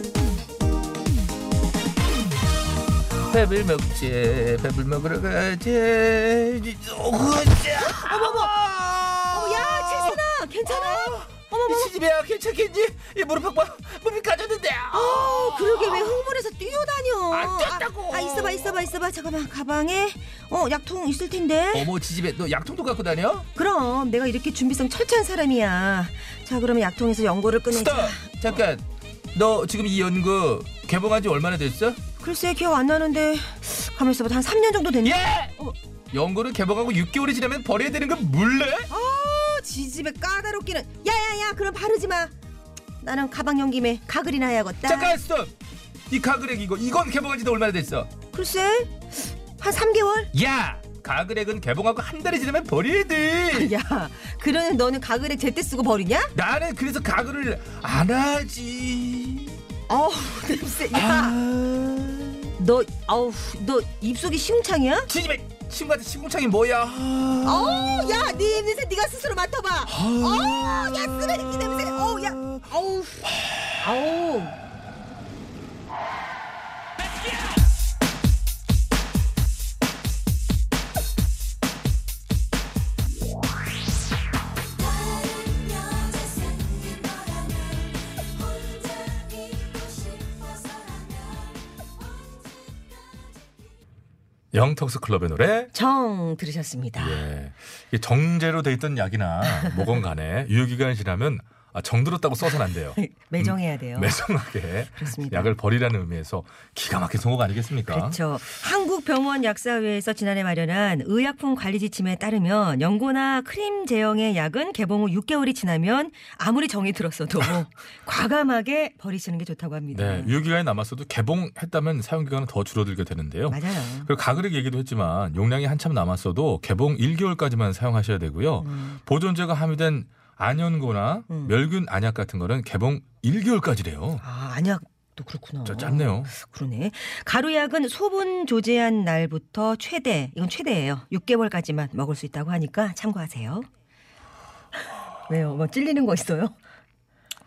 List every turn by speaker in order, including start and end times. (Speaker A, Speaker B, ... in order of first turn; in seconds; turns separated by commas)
Speaker A: 3.3-16.2, Speaker B: 7.8-8.5, Speaker B: 9.3-11.9, Speaker B: 14.9-21.9, Speaker A: 17.3-18.8, Speaker A: 21.7-23.5, Speaker B: 23.6-28.3, Speaker A: 27.7-32.0, Speaker B: 32.2-35.7, Speaker A: 35.0-35.5, Speaker A: 36.1-38.9, Speaker C: 37.8-38.7, Speaker B: 38.9-42.3, Speaker B: 43.0-45.2, Speaker A: 44.8-45.5, Speaker A: 46.1-48.1, Speaker B: 48.3-50.3, Speaker A: 50.3-53.7, Speaker B: 53.5-56.3, Speaker A: 56.3-59.6, Speaker B: 59.9-61.4, Speaker A: 60.9-62.4, Speaker B: 62.6-65.1, Speaker A: 65.1-68.5, Speaker B: 67.4-73.2, Speaker A: 69.9-72.6, Speaker B: 73.8-74.5, Speaker C: 94.5-95.7, Speaker B: 95.7-97.2, Speaker C: 97.0-108.2, Speaker B: 99.5-99.9, Speaker B: 103.0-104.1, Speaker B: 104.9-105.5, Speaker B: 107.9-120.3, Speaker C: 119.9-134.2, Speaker B: 123.5-124.1, Speaker B: 128.6-129.0, Speaker B: 134.2-143.7, Speaker C: 135.6-136.3, Speaker B: 145.3-146.6